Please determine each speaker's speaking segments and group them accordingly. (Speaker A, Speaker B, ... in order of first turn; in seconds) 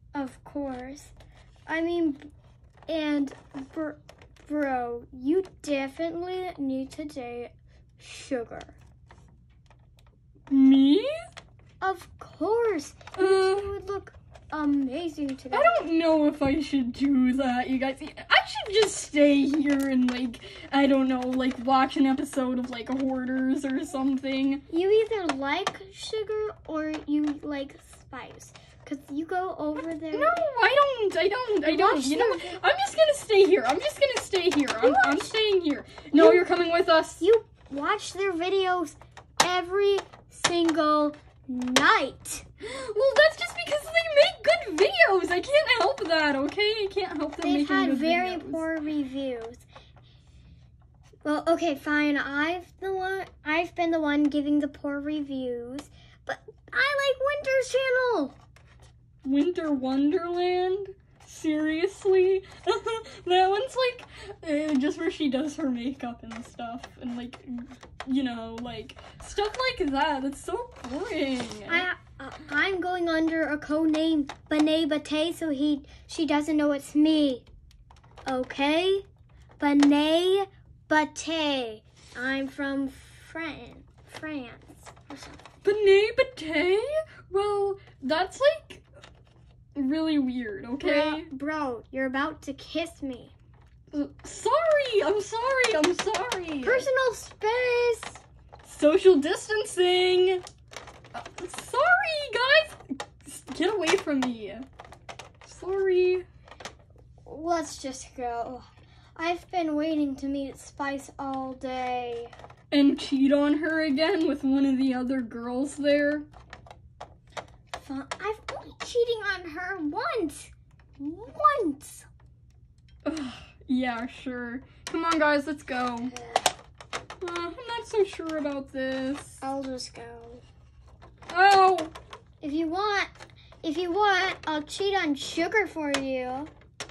Speaker A: 0.1-1.1, 1.7-2.3, 2.9-8.7, 11.8-15.9, 24.7-30.4, 31.6-32.6, 34.8-35.3, 36.1-36.5, 37.2-42.4, 47.4-49.6, 51.2-58.4, 71.7-77.5, 78.2-79.0, 79.6-85.4, 90.8-93.3, 96.6-98.2, 107.2-112.3, 117.7-122.1, 126.1-126.5, 129.4-130.4, 132.4-136.5
Speaker B: 10.5-11.1, 13.2-13.7, 15.5-24.6, 30.1-37.2, 42.6-48.6, 59.2-71.8, 85.6-88.8, 89.8-91.3, 93.9-96.9, 98.6-100.4, 101.1-104.7, 105.4-106.2, 112.7-116.3, 123.0-126.1, 127.2-129.4, 131.3-131.9